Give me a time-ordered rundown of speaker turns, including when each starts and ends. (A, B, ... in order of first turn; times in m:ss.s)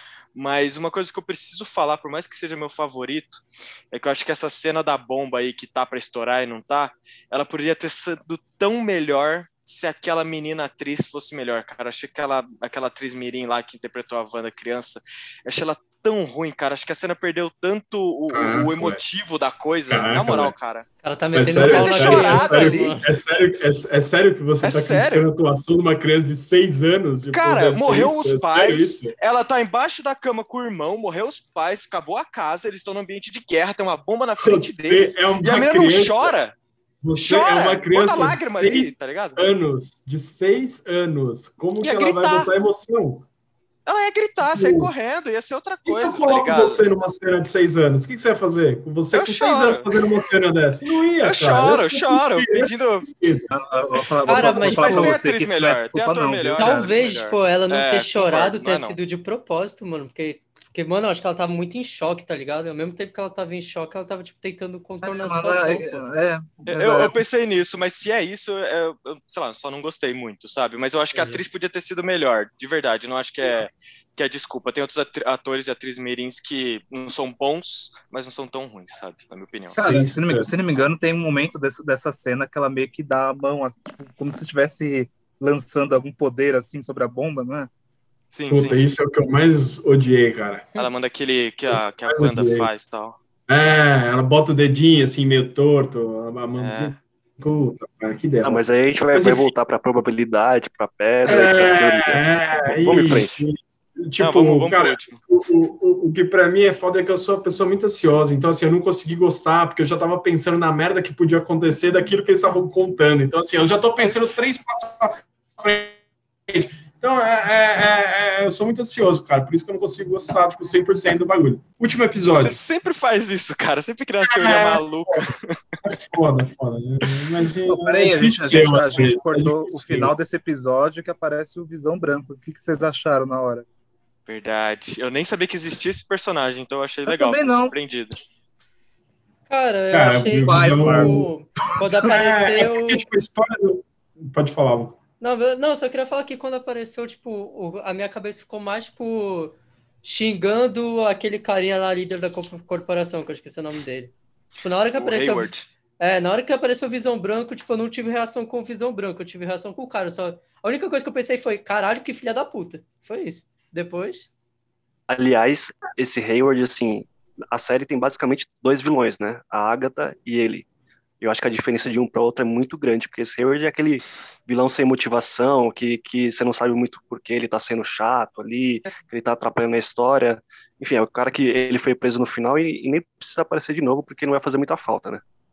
0:00.4-0:20.9 A
0:18.3-0:19.0 B
0:19.9-0:20.5 B
0:21.0-0:23.1 C
0:21.3-0:29.2 B
0:21.4-0:23.0 A
0:24.6-0:25.3 A
0:27.3-0:36.5 A
0:34.4-0:36.4 B
0:37.0-0:43.2 B
0:37.2-0:39.4 A
0:41.8-0:42.5 A
0:43.9-0:46.8 A
0:44.4-0:44.9 B
0:45.8-0:54.0 B
0:49.1-0:49.9 A
0:51.2-0:53.1 A
0:53.5-0:56.9 D
0:54.3-0:55.2 C
0:54.4-0:59.0 A
0:56.6-1:06.0 C
1:05.0-1:07.2 D
1:06.7-1:20.0 A
1:19.7-1:27.7 D
1:19.8-1:20.8 B
1:28.3-1:28.8 A
1:28.5-1:30.7 B
1:30.8-1:33.2 A
1:31.7-1:32.7 B
1:33.5-1:38.6 B
1:36.6-1:36.9 A
1:38.4-1:43.4 E
1:39.1-1:39.5 B
1:41.2-2:02.6 B
1:44.2-1:45.2 A
1:54.0-1:54.3 A
2:02.3-2:05.6 A
2:04.2-2:05.3 B
2:05.8-2:10.1 B
2:07.7-2:13.7 D
2:14.3-2:18.2 A
2:17.1-2:17.8 D
2:19.5-2:23.0 C
2:19.9-2:21.3 B
2:20.3-2:22.2 D
2:22.1-2:25.0 B
2:25.2-2:44.3 C
2:35.0-2:35.7 A
2:45.1-2:50.7 E
2:51.2-3:05.2 E